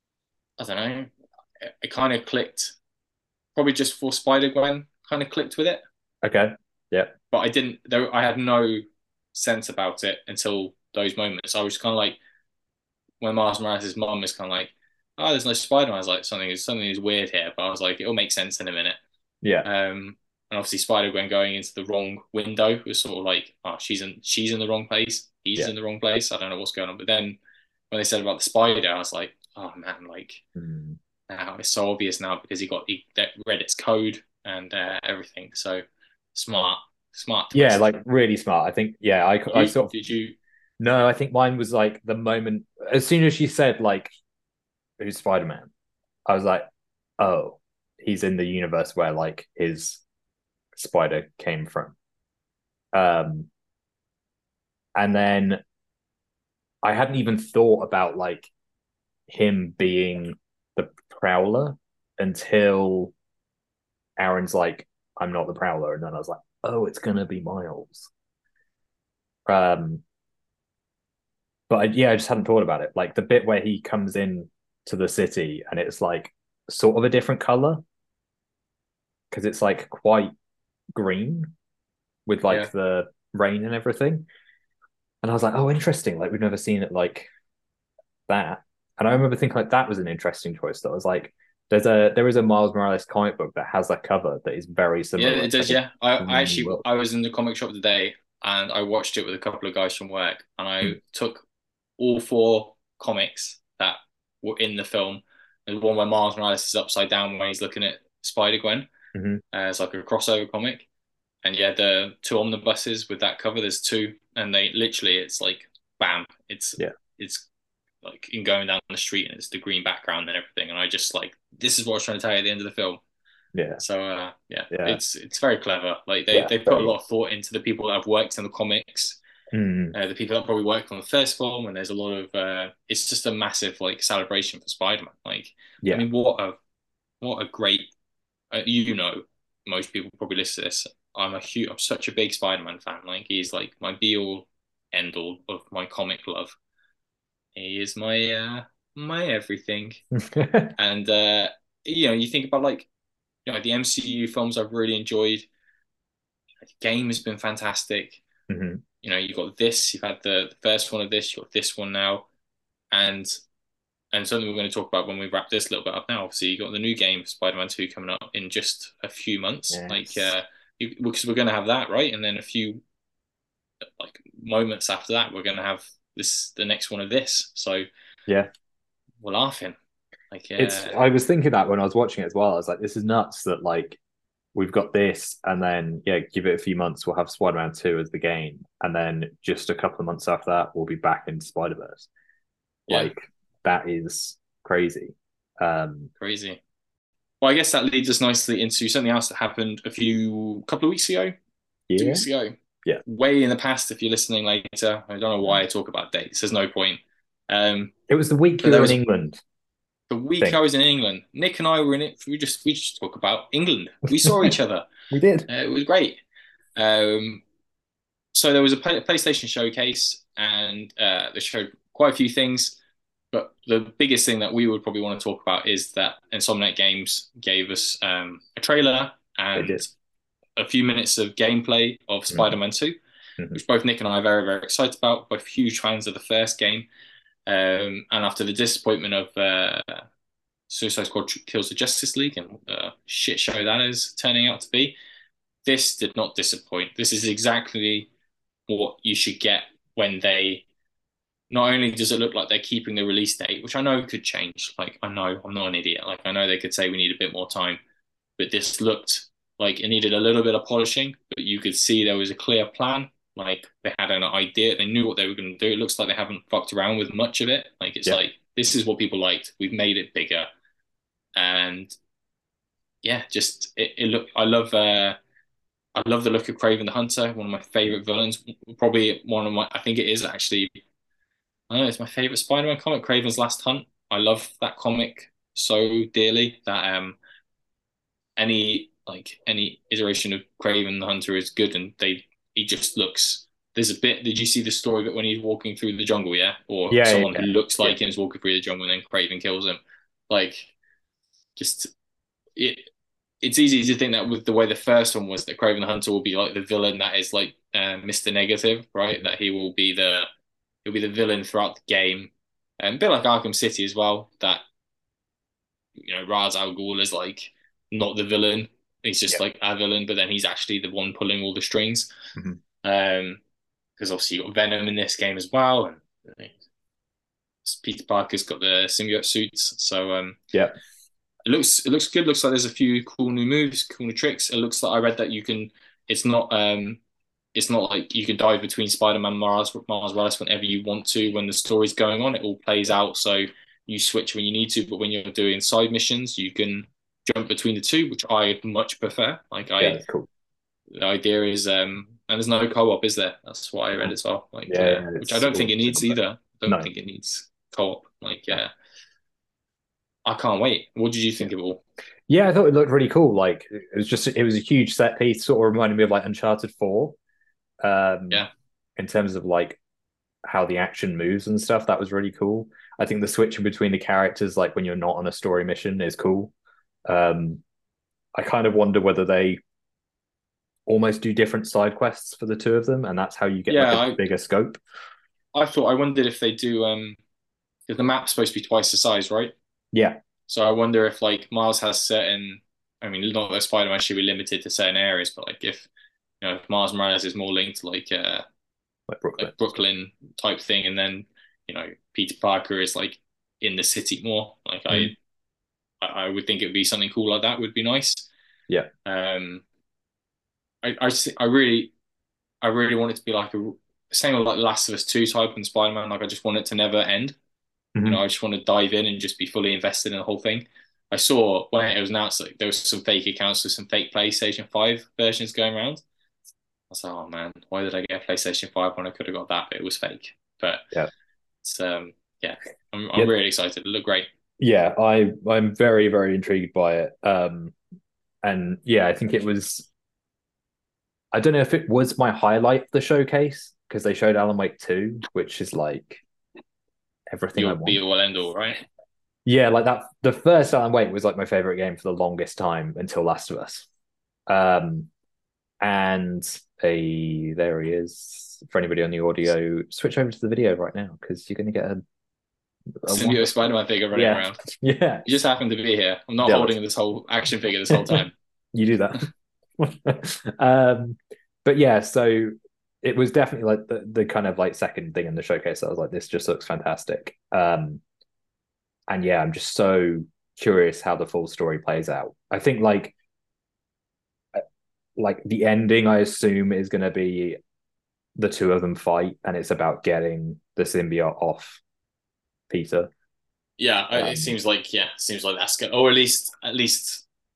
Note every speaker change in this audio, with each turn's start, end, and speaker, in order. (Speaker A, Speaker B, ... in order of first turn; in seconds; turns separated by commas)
Speaker A: 0.6-1.1, Speaker A: 1.6-2.8, Speaker A: 3.6-5.8, Speaker B: 6.2-7.2, Speaker A: 7.3-12.2, Speaker A: 13.2-19.0, Speaker A: 19.6-27.4, Speaker A: 27.9-30.4, Speaker B: 30.6-31.0, Speaker A: 31.3-38.0, Speaker B: 37.5-40.0, Speaker A: 39.5-40.4, Speaker B: 40.8-44.1, Speaker B: 45.0-45.7, Speaker B: 46.3-46.6, Speaker B: 47.2-50.0, Speaker B: 50.8-52.0, Speaker B: 52.9-53.5, Speaker B: 55.0-55.6, Speaker B: 56.8-58.5, Speaker B: 59.3-63.1, Speaker B: 64.2-68.1, Speaker B: 69.5-70.0, Speaker B: 71.7-77.8, Speaker B: 79.3-80.3, Speaker B: 80.9-81.5, Speaker B: 82.3-84.3, Speaker B: 85.2-87.3, Speaker B: 88.3-96.8, Speaker A: 95.2-101.5, Speaker A: 102.0-108.9, Speaker B: 109.1-109.4, Speaker A: 109.5-110.9, Speaker A: 111.4-117.5, Speaker A: 118.0-123.0, Speaker B: 123.5-123.8, Speaker A: 123.8-129.2, Speaker B: 124.7-125.0, Speaker B: 126.3-126.9, Speaker B: 129.5-129.9, Speaker A: 129.9-136.6, Speaker A: 137.2-137.9, Speaker A: 138.5-146.6, Speaker A: 147.6-150.0, Speaker B: 150.2-150.7, Speaker A: 150.8-152.9, Speaker A: 153.5-155.5, Speaker A: 156.7-158.2, Speaker B: 158.5-158.8, Speaker A: 159.0-162.3, Speaker A: 162.9-163.4, Speaker A: 164.1-172.8, Speaker B: 169.7-170.3, Speaker A: 174.0-177.9, Speaker A: 179.2-179.8, Speaker A: 180.3-181.0, Speaker B: 180.6-184.0, Speaker B: 184.6-192.1, Speaker A: 192.9-193.1, Speaker B: 192.9-196.1, Speaker A: 196.2-196.6, Speaker A: 197.4-201.3, Speaker B: 201.9-202.2, Speaker A: 202.0-207.9, Speaker B: 208.1-209.4, Speaker A: 208.6-209.0, Speaker A: 210.1-214.9, Speaker B: 214.2-214.5, Speaker B: 215.1-215.5, Speaker A: 215.5-216.2, Speaker A: 216.8-217.4, Speaker A: 218.3-222.8, Speaker A: 223.3-229.9, Speaker B: 229.6-229.8, Speaker A: 230.6-233.0, Speaker A: 233.5-236.9, Speaker A: 237.5-240.1, Speaker A: 240.7-245.0, Speaker A: 245.7-248.1, Speaker A: 248.7-250.7, Speaker A: 251.5-257.8, Speaker A: 258.4-270.5, Speaker A: 271.4-271.9, Speaker A: 273.0-275.2, Speaker A: 276.0-280.8, Speaker A: 281.7-287.2, Speaker A: 288.4-300.7, Speaker B: 296.9-298.0, Speaker A: 301.6-301.9, Speaker A: 302.6-302.9, Speaker A: 303.4-310.3, Speaker A: 310.9-314.6, Speaker A: 316.0-322.1, Speaker A: 322.8-323.4, Speaker A: 324.0-326.5, Speaker A: 327.6-330.4, Speaker A: 331.5-337.0, Speaker A: 337.6-350.0, Speaker B: 349.8-350.3, Speaker A: 350.9-358.7, Speaker B: 354.7-356.2, Speaker A: 360.2-361.8, Speaker B: 362.3-367.2, Speaker B: 367.8-368.4, Speaker B: 369.0-369.8, Speaker B: 370.5-376.5, Speaker B: 377.1-377.6, Speaker B: 378.4-379.6, Speaker B: 380.9-384.8, Speaker A: 383.7-384.2, Speaker A: 385.5-387.2, Speaker A: 387.9-389.6, Speaker B: 389.9-390.2, Speaker A: 390.5-395.9, Speaker A: 396.4-398.4, Speaker B: 399.1-399.5, Speaker A: 399.4-405.2, Speaker A: 406.0-408.3, Speaker A: 409.1-409.6, Speaker A: 410.8-411.9, Speaker A: 412.6-417.4, Speaker B: 417.9-418.2, Speaker A: 418.1-426.0, Speaker A: 426.9-430.9, Speaker A: 431.6-434.3, Speaker B: 434.6-437.8, Speaker B: 438.4-439.9, Speaker B: 441.3-446.2, Speaker B: 447.3-448.0, Speaker A: 447.6-448.9, Speaker B: 449.5-453.9, Speaker B: 454.5-455.1, Speaker B: 455.8-462.0, Speaker B: 463.0-463.5, Speaker A: 463.1-464.6, Speaker B: 464.1-465.3, Speaker A: 465.3-468.4, Speaker B: 466.4-466.8, Speaker B: 467.9-468.2, Speaker B: 468.7-478.0, Speaker B: 479.1-483.1, Speaker B: 485.2-487.6, Speaker B: 488.4-491.8, Speaker B: 492.7-493.1, Speaker A: 493.8-497.2, Speaker B: 494.1-494.6